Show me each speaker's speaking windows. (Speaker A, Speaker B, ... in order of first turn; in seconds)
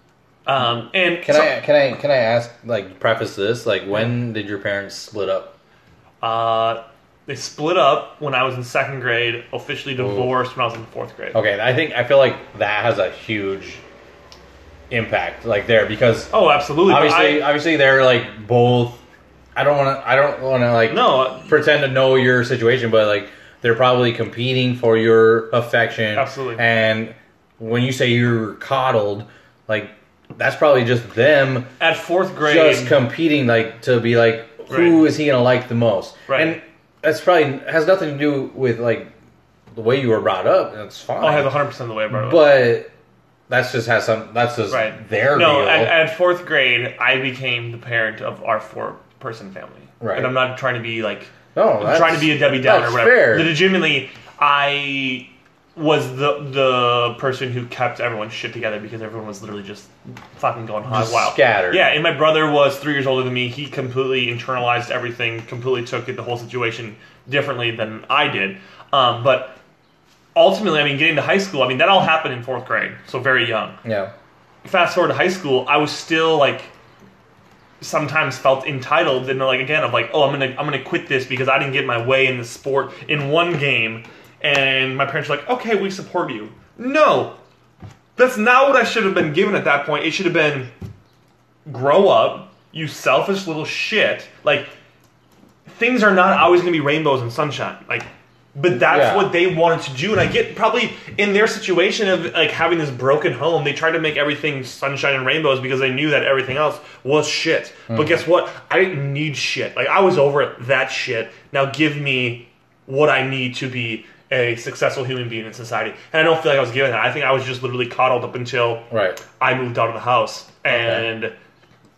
Speaker A: 0.5-1.6, 6.2-11.4, 16.3-17.5, 20.9-21.5, 26.1-26.6, 31.8-33.0, 34.7-35.1, 36.3-36.5, 41.2-42.5, 44.7-69.5, 70.3-73.8, 74.6-76.7, 77.8-87.4, 88.2-90.7, 91.7-94.7, 95.7-121.3
Speaker B: 1.2-5.5, 10.0-10.3, 11.3-13.8, 14.9-19.0, 19.6-31.7, 32.4-39.1, 39.7-41.6, 42.1-42.9, 43.5-46.0, 50.0-50.4, 51.5-53.5, 60.9-61.9, 73.8-74.1, 98.7-99.4, 107.9-108.2, 118.9-119.2, 120.7-121.0